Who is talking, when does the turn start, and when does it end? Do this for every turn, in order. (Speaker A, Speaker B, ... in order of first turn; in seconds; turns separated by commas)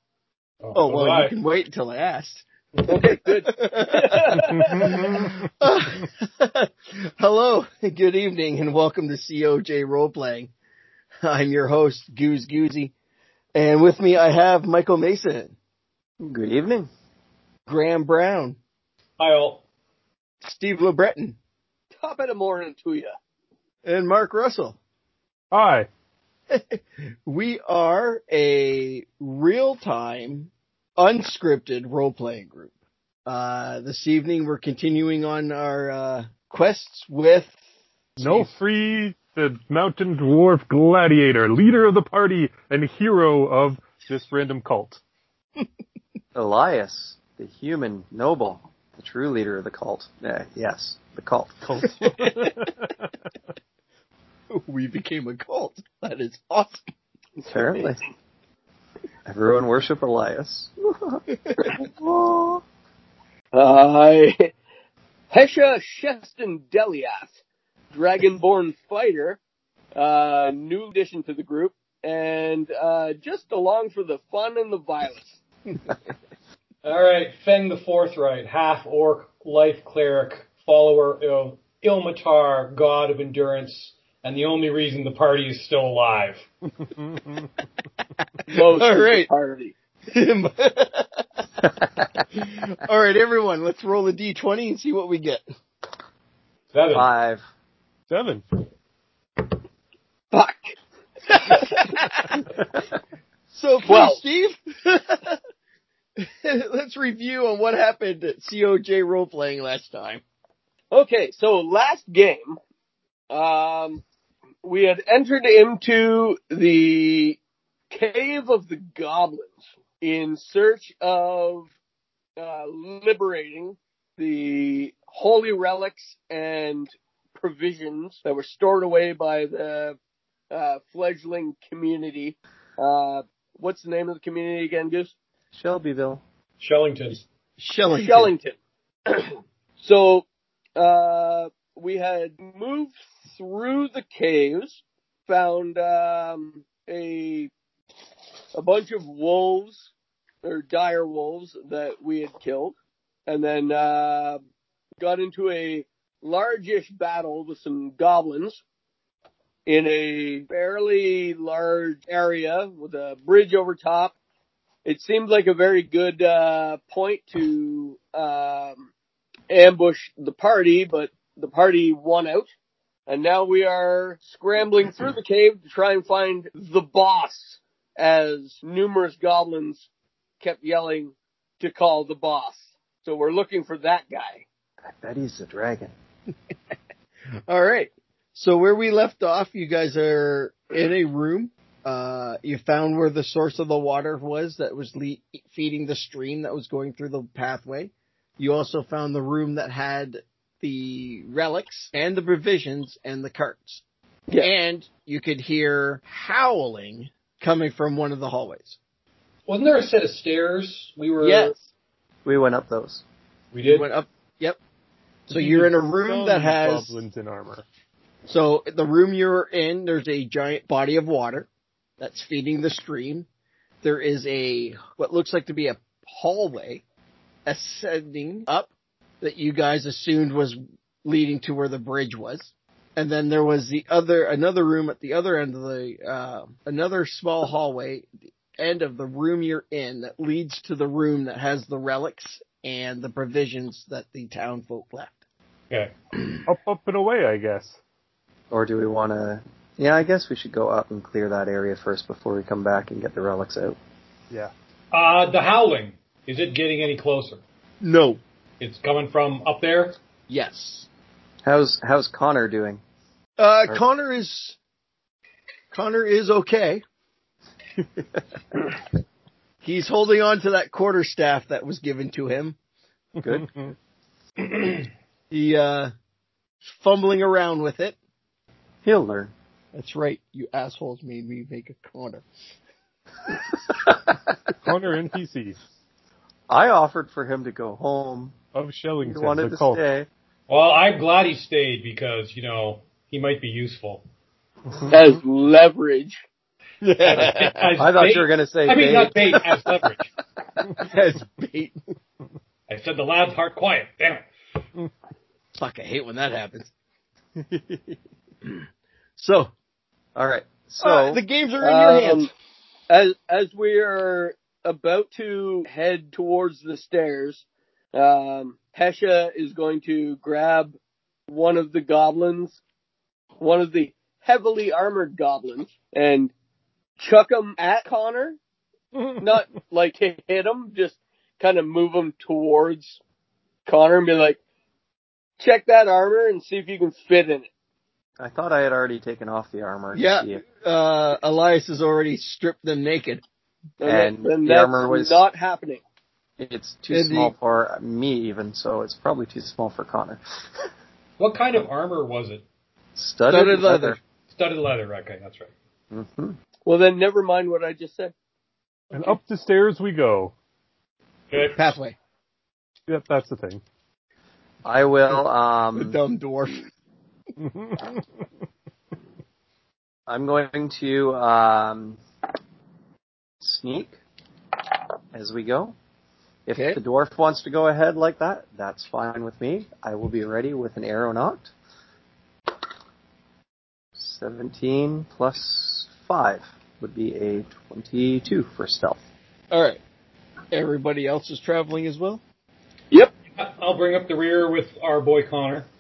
Speaker A: 0.6-1.3, Speaker B: 0.7-10.5, Speaker C: 2.8-5.1, Speaker D: 4.5-5.3, Speaker B: 11.2-12.9, Speaker B: 13.5-15.5, Speaker E: 16.2-16.9, Speaker B: 17.7-18.6, Speaker A: 19.2-19.6, Speaker B: 20.4-21.4, Speaker C: 22.0-23.1, Speaker B: 23.8-24.8, Speaker D: 25.5-25.9, Speaker B: 26.5-32.7, Speaker B: 33.2-37.5, Speaker B: 38.1-38.5, Speaker D: 38.2-45.0, Speaker E: 46.3-51.9, Speaker D: 51.6-52.9, Speaker B: 52.1-52.5, Speaker B: 54.5-56.8, Speaker C: 57.4-58.0, Speaker E: 57.5-58.0, Speaker E: 59.2-62.6, Speaker B: 61.3-61.7, Speaker C: 63.5-64.5, Speaker C: 65.3-67.3, Speaker C: 67.9-69.4, Speaker C: 70.0-75.4, Speaker A: 76.8-86.5, Speaker D: 87.0-87.5, Speaker C: 88.5-89.7, Speaker B: 88.6-89.3, Speaker B: 90.1-91.2, Speaker B: 92.3-95.4, Speaker A: 96.7-97.1, Speaker E: 96.9-97.4, Speaker D: 98.1-98.4, Speaker C: 100.3-100.8, Speaker C: 101.3-101.6, Speaker B: 101.8-102.4, Speaker B: 103.5-105.4, Speaker C: 103.8-104.2, Speaker B: 106.2-110.2, Speaker C: 110.9-112.6, Speaker C: 113.3-114.0, Speaker C: 114.6-121.7, Speaker C: 122.4-130.0, Speaker C: 130.5-135.1, Speaker E: 135.5-136.2, Speaker A: 136.6-137.2, Speaker B: 137.6-138.3, Speaker C: 137.9-147.5, Speaker C: 148.5-149.9, Speaker C: 150.4-152.7, Speaker C: 153.3-154.4, Speaker C: 155.0-158.6, Speaker C: 159.7-164.1, Speaker C: 164.8-168.9, Speaker C: 169.5-172.5, Speaker C: 173.1-179.9, Speaker C: 180.4-184.4, Speaker E: 185.0-185.9, Speaker B: 187.5-203.8, Speaker B: 204.4-208.8, Speaker A: 209.5-211.5, Speaker B: 211.2-211.5, Speaker E: 212.2-213.0, Speaker A: 213.5-213.9, Speaker B: 213.6-214.6, Speaker D: 215.3-217.6, Speaker B: 215.3-217.0, Speaker B: 218.2-221.5, Speaker B: 222.0-223.3, Speaker B: 223.8-226.8, Speaker B: 227.4-245.2, Speaker D: 246.4-247.8, Speaker E: 248.5-253.8, Speaker A: 254.9-257.4, Speaker B: 257.8-258.2, Speaker A: 258.6-260.0, Speaker B: 260.3-260.9, Speaker E: 261.4-262.8, Speaker B: 263.4-264.6, Speaker B: 265.7-266.8, Speaker B: 269.6-272.6, Speaker E: 273.2-273.5, Speaker D: 273.3-273.7, Speaker B: 275.3-275.9, Speaker B: 276.6-277.9, Speaker E: 278.8-279.3, Speaker B: 279.7-282.2, Speaker D: 284.6-285.6, Speaker E: 286.5-288.4, Speaker D: 288.5-289.8, Speaker E: 289.0-290.1, Speaker A: 290.5-294.0, Speaker C: 294.9-296.2, Speaker B: 296.8-297.7, Speaker A: 297.0-300.1, Speaker E: 297.8-299.1, Speaker B: 300.7-301.8, Speaker A: 302.7-304.3, Speaker B: 305.6-306.7, Speaker B: 309.2-309.5, Speaker E: 310.1-311.2, Speaker B: 310.8-312.3, Speaker C: 311.6-312.3, Speaker C: 312.9-317.4, Speaker C: 317.9-320.8, Speaker C: 321.3-322.6, Speaker C: 323.4-326.3, Speaker C: 327.0-328.4, Speaker D: 328.9-329.3, Speaker C: 329.2-333.0, Speaker C: 333.6-334.4, Speaker C: 335.4-337.5, Speaker E: 338.2-340.4, Speaker B: 339.9-343.2, Speaker C: 343.8-345.8, Speaker E: 343.8-345.2, Speaker E: 346.4-350.2, Speaker B: 346.9-347.3, Speaker A: 351.2-352.4, Speaker E: 352.9-354.0, Speaker B: 353.3-354.0, Speaker A: 354.3-355.5, Speaker E: 355.9-356.4, Speaker C: 356.6-358.1, Speaker D: 358.9-360.3, Speaker A: 361.3-361.7, Speaker B: 361.6-361.9, Speaker D: 362.9-363.6, Speaker E: 364.6-366.0, Speaker B: 365.7-366.6, Speaker D: 367.4-368.0, Speaker E: 370.1-372.0, Speaker E: 373.4-373.9, Speaker E: 375.1-375.7, Speaker E: 376.4-381.5, Speaker E: 383.9-389.0, Speaker B: 389.5-389.8, Speaker B: 390.5-392.2, Speaker A: 393.3-395.7